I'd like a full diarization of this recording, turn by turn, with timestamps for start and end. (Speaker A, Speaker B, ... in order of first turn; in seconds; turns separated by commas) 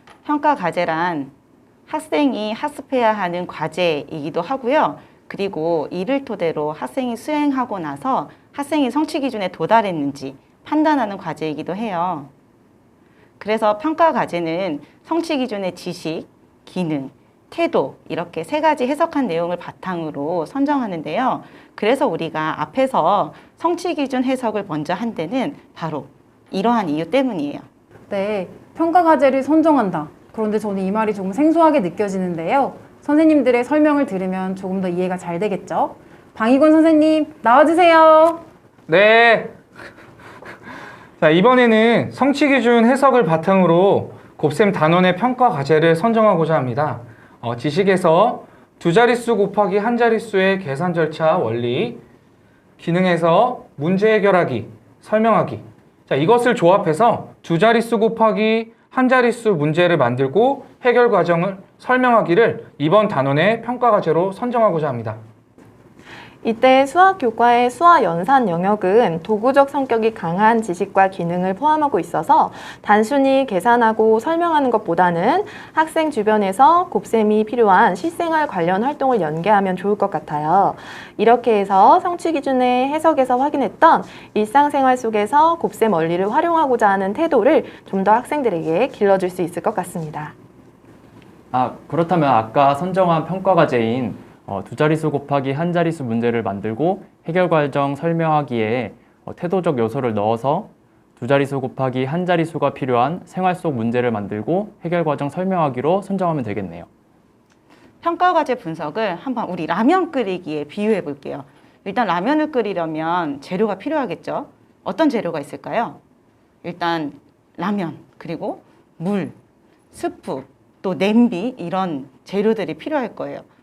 Speaker A: 0.2-1.3, Speaker A: 1.9-12.3, Speaker A: 13.4-27.6, Speaker B: 28.1-38.4, Speaker C: 38.9-39.5, Speaker C: 41.2-52.0, Speaker C: 52.8-65.2, Speaker D: 66.4-90.3, Speaker E: 91.5-106.9, Speaker A: 108.0-116.0, Speaker A: 116.6-119.4, Speaker A: 119.9-123.5